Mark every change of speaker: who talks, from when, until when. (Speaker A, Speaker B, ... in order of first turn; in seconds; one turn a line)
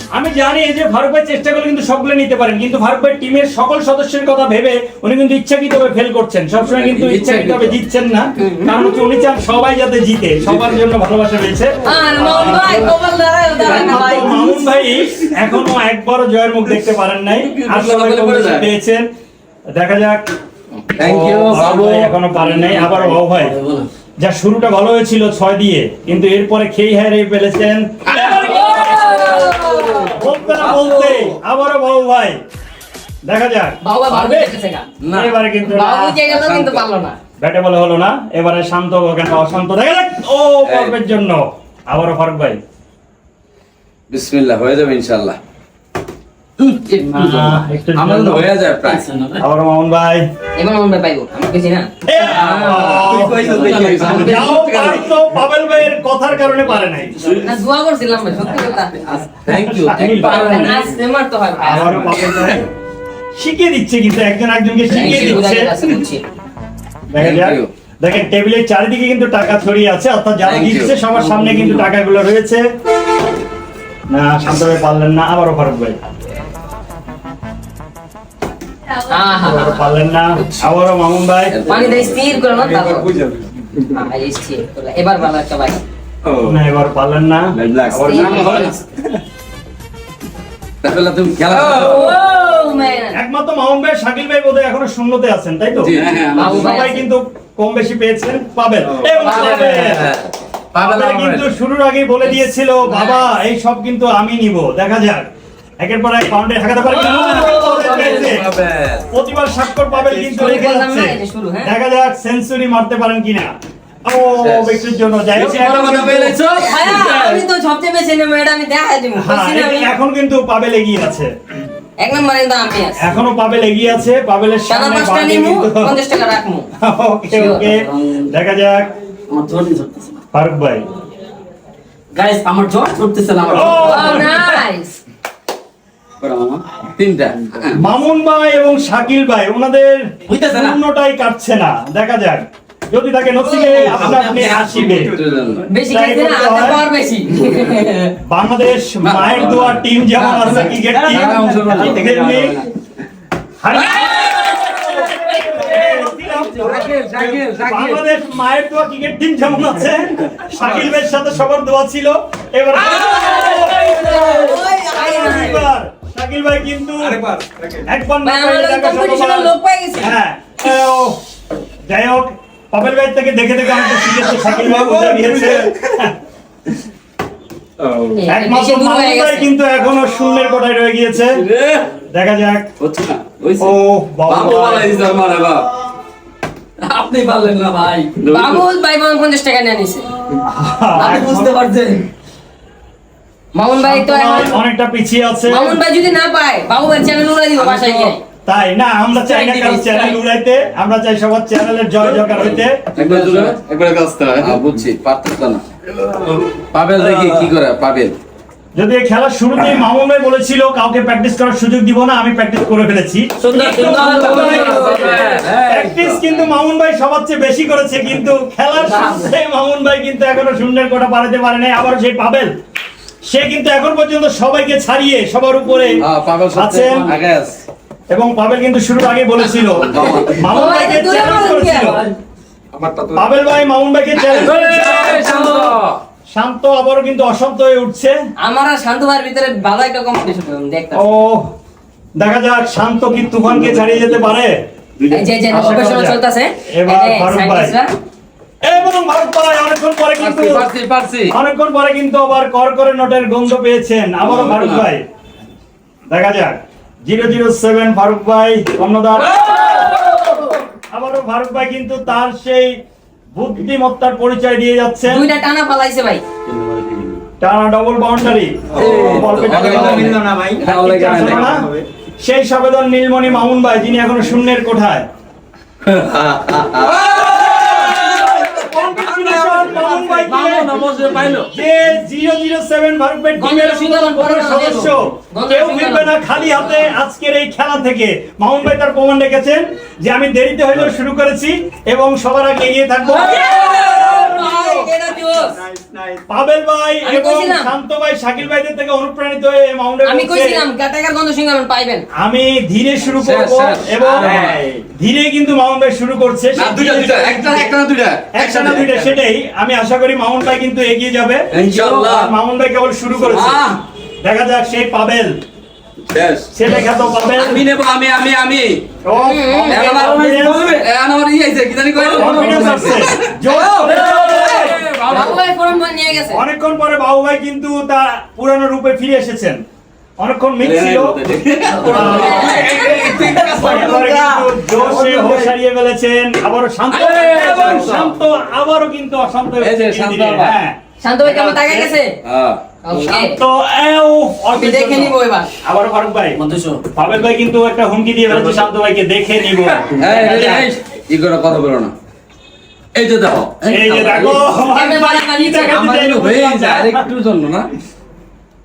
Speaker A: 0.1-12.9
Speaker B: 6.6-7.8
Speaker C: 8.4-8.7
Speaker B: 10.4-10.8
Speaker C: 11.8-14.6
Speaker A: 13.6-19.0
Speaker B: 17.4-18.6
Speaker D: 18.1-18.6
Speaker A: 19.8-20.2
Speaker B: 20.8-23.9
Speaker A: 20.9-23.5
Speaker A: 24.2-29.4
Speaker B: 28.1-30.1
Speaker C: 28.2-30.1
Speaker A: 30.1-32.4
Speaker B: 30.6-31.0
Speaker A: 33.2-34.5
Speaker C: 33.8-34.9
Speaker B: 35.0-35.4
Speaker A: 35.1-36.1
Speaker C: 35.7-37.2
Speaker B: 36.3-36.9
Speaker A: 37.4-42.6
Speaker B: 40.6-41.0
Speaker B: 44.1-45.4
Speaker B: 46.6-49.1
Speaker A: 47.0-48.5
Speaker D: 48.9-49.4
Speaker A: 49.4-50.2
Speaker C: 50.6-51.9
Speaker A: 52.0-57.3
Speaker B: 52.2-55.0
Speaker D: 52.4-55.0
Speaker C: 57.4-59.2
Speaker B: 59.4-60.8
Speaker A: 59.5-60.8
Speaker C: 60.1-62.2
Speaker A: 61.6-62.6
Speaker A: 63.4-65.7
Speaker C: 64.9-66.2
Speaker B: 64.9-65.4
Speaker A: 67.1-72.6
Speaker B: 67.2-67.7
Speaker B: 70.4-70.9
Speaker A: 74.1-76.0
Speaker C: 79.0-79.9
Speaker A: 79.4-81.5
Speaker B: 81.5-82.6
Speaker C: 81.7-83.1
Speaker D: 82.5-83.9
Speaker C: 83.9-85.8
Speaker D: 86.2-86.6
Speaker A: 86.4-88.6
Speaker B: 87.7-88.7
Speaker D: 87.7-88.9
Speaker C: 87.9-88.8
Speaker B: 90.8-92.2
Speaker D: 91.6-91.9
Speaker C: 91.6-93.2
Speaker A: 93.1-100.0
Speaker B: 95.8-96.8
Speaker D: 96.1-96.5
Speaker C: 96.3-97.0
Speaker B: 99.1-101.5
Speaker C: 99.3-99.8
Speaker A: 100.8-105.2
Speaker C: 102.3-103.3
Speaker A: 105.8-108.4
Speaker C: 106.9-108.3
Speaker B: 107.0-109.1
Speaker A: 109.1-113.5
Speaker C: 110.2-111.7
Speaker A: 114.0-116.4
Speaker B: 114.4-114.8
Speaker B: 115.3-117.4
Speaker C: 116.5-119.9
Speaker A: 119.2-121.3
Speaker C: 122.0-123.0
Speaker A: 123.0-126.0
Speaker C: 124.7-126.7
Speaker A: 126.8-128.9
Speaker C: 127.3-127.7
Speaker D: 129.3-130.1
Speaker A: 130.3-130.8
Speaker D: 132.1-134.3
Speaker A: 133.5-134.4
Speaker C: 133.8-135.0
Speaker D: 136.2-136.6
Speaker B: 136.8-137.4
Speaker A: 137.7-145.2
Speaker D: 140.3-140.8
Speaker B: 143.5-145.7
Speaker D: 143.6-145.3
Speaker C: 145.7-148.1
Speaker A: 145.9-146.8
Speaker A: 148.2-152.6
Speaker B: 149.0-152.1
Speaker D: 150.4-152.7
Speaker A: 153.6-167.2
Speaker B: 153.9-154.9
Speaker D: 155.7-156.0
Speaker B: 156.5-158.0
Speaker D: 156.6-157.8
Speaker D: 160.6-160.9
Speaker D: 162.9-164.6
Speaker C: 163.9-165.7
Speaker D: 167.0-167.8
Speaker A: 167.8-171.2
Speaker C: 168.2-170.1
Speaker A: 171.9-176.1
Speaker D: 174.3-175.8
Speaker D: 177.8-178.2
Speaker C: 178.1-179.5
Speaker A: 178.3-181.4
Speaker D: 181.5-181.8
Speaker A: 182.1-182.7
Speaker D: 182.8-183.7
Speaker A: 183.6-185.0
Speaker D: 184.3-185.6
Speaker B: 184.5-185.2
Speaker D: 186.8-188.6
Speaker C: 188.2-190.1
Speaker A: 190.4-191.5
Speaker D: 191.0-192.0
Speaker C: 191.1-191.5
Speaker C: 193.5-194.6
Speaker A: 193.8-195.8
Speaker C: 195.5-198.2
Speaker B: 197.7-198.0
Speaker A: 198.4-202.8
Speaker C: 199.1-200.2
Speaker B: 202.9-203.7
Speaker D: 202.9-204.6
Speaker B: 204.3-205.6
Speaker D: 206.0-207.5
Speaker B: 206.7-208.2
Speaker A: 208.8-222.5
Speaker D: 213.4-215.4
Speaker B: 213.5-216.5
Speaker A: 223.2-227.1
Speaker B: 226.0-227.6
Speaker A: 228.1-232.1
Speaker B: 229.8-230.4
Speaker C: 230.5-232.1
Speaker D: 232.7-233.2
Speaker A: 233.1-235.0
Speaker B: 234.2-236.0
Speaker D: 234.6-235.8
Speaker A: 236.3-238.2
Speaker C: 238.4-241.0
Speaker A: 240.9-241.5
Speaker A: 242.2-244.6
Speaker D: 245.0-245.2
Speaker C: 245.1-247.9
Speaker A: 245.5-246.2
Speaker A: 246.7-247.7
Speaker A: 248.6-250.7
Speaker B: 250.2-251.3
Speaker A: 251.3-255.0
Speaker B: 254.2-254.9
Speaker A: 256.1-259.9
Speaker B: 259.4-260.1
Speaker A: 260.9-262.8
Speaker A: 263.3-265.2
Speaker C: 265.0-266.2
Speaker B: 266.6-266.9
Speaker A: 267.4-271.6
Speaker B: 268.7-271.5
Speaker D: 268.7-271.9
Speaker A: 272.2-275.1
Speaker B: 276.1-281.5
Speaker D: 276.1-278.0
Speaker A: 277.3-280.7
Speaker D: 279.2-280.3
Speaker A: 281.4-294.9
Speaker C: 283.4-286.1
Speaker C: 293.1-295.6
Speaker D: 293.9-294.2
Speaker D: 295.3-296.2
Speaker A: 296.3-300.6
Speaker C: 297.0-297.7
Speaker C: 300.0-302.1
Speaker A: 302.2-304.4
Speaker B: 303.0-304.6
Speaker D: 304.2-304.8
Speaker A: 304.9-307.7
Speaker B: 306.6-308.9
Speaker D: 306.9-309.0
Speaker A: 308.3-313.6
Speaker B: 311.5-312.3
Speaker D: 311.6-312.1
Speaker B: 313.2-313.8
Speaker A: 314.2-315.3
Speaker B: 316.1-316.4
Speaker A: 316.5-317.6
Speaker B: 317.3-318.8
Speaker A: 319.1-320.8
Speaker C: 319.2-319.9
Speaker B: 319.7-325.4
Speaker D: 319.9-325.4
Speaker A: 322.0-324.8
Speaker C: 325.1-326.4
Speaker A: 326.3-329.6
Speaker A: 330.2-331.2
Speaker B: 330.7-330.9
Speaker D: 330.9-335.5
Speaker B: 331.6-333.3
Speaker A: 331.8-332.6
Speaker C: 331.9-333.3
Speaker A: 333.3-341.9
Speaker B: 336.9-338.1
Speaker D: 337.5-338.0
Speaker B: 339.6-340.6
Speaker C: 341.0-342.2
Speaker B: 342.2-342.6
Speaker C: 342.8-343.4
Speaker A: 342.9-346.4
Speaker C: 344.5-345.5
Speaker A: 346.9-350.7
Speaker B: 350.0-351.9
Speaker B: 352.9-354.5
Speaker A: 353.7-357.0
Speaker C: 354.7-356.2
Speaker B: 355.9-357.7